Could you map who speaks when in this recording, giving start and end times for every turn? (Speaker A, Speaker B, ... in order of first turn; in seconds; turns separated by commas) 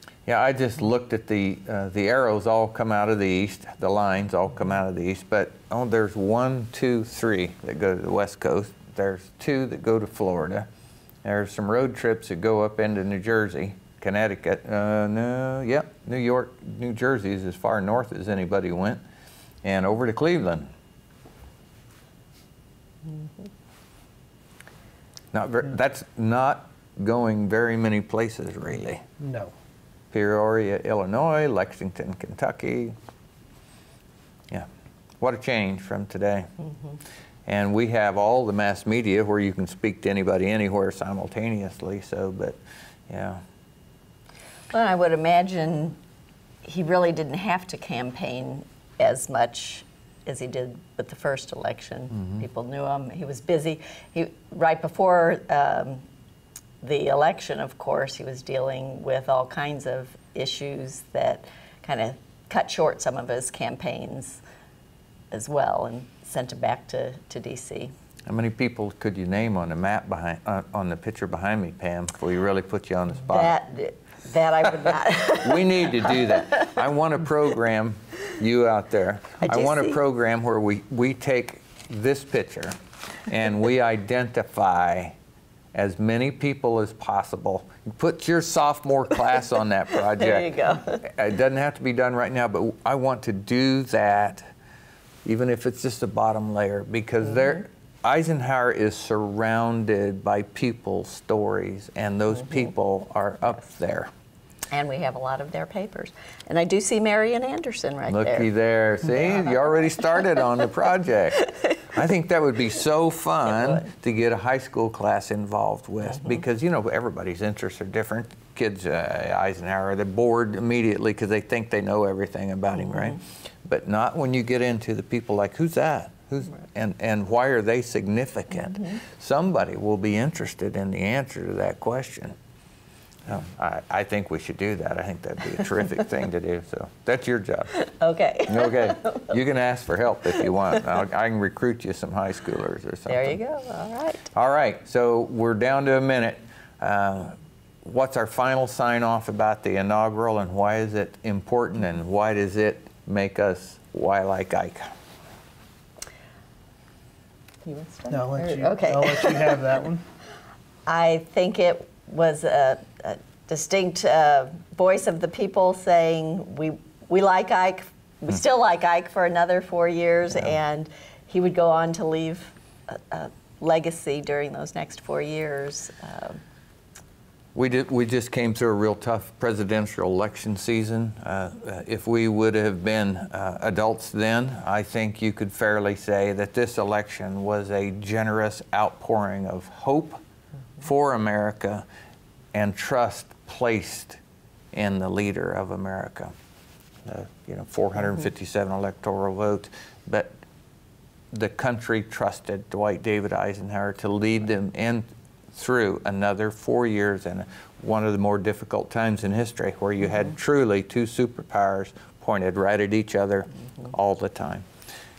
Speaker A: 0.2-10.7, Speaker A: 11.2-19.0, Speaker A: 19.6-20.7, Speaker A: 25.3-29.0, Speaker B: 29.2-29.5, Speaker A: 30.1-33.0, Speaker A: 35.2-36.5, Speaker A: 37.5-43.4, Speaker C: 44.7-46.0, Speaker C: 46.6-56.0, Speaker C: 56.8-64.4, Speaker C: 65.3-67.9, Speaker A: 68.3-73.5, Speaker C: 73.3-76.7, Speaker A: 75.4-82.8, Speaker C: 79.4-80.0, Speaker A: 83.3-85.1, Speaker A: 85.7-94.5, Speaker C: 90.1-91.1, Speaker A: 95.2-104.1, Speaker C: 104.7-108.5, Speaker A: 108.1-132.3, Speaker C: 109.3-109.6, Speaker A: 133.3-137.7, Speaker C: 137.8-139.3, Speaker A: 138.5-143.4, Speaker C: 143.1-144.3, Speaker A: 144.3-154.9, Speaker C: 157.6-159.6, Speaker B: 158.1-160.0, Speaker C: 160.9-176.4, Speaker A: 177.6-190.2, Speaker A: 190.8-191.8, Speaker A: 192.5-194.2, Speaker A: 194.7-196.3, Speaker A: 197.1-200.3, Speaker A: 201.3-214.6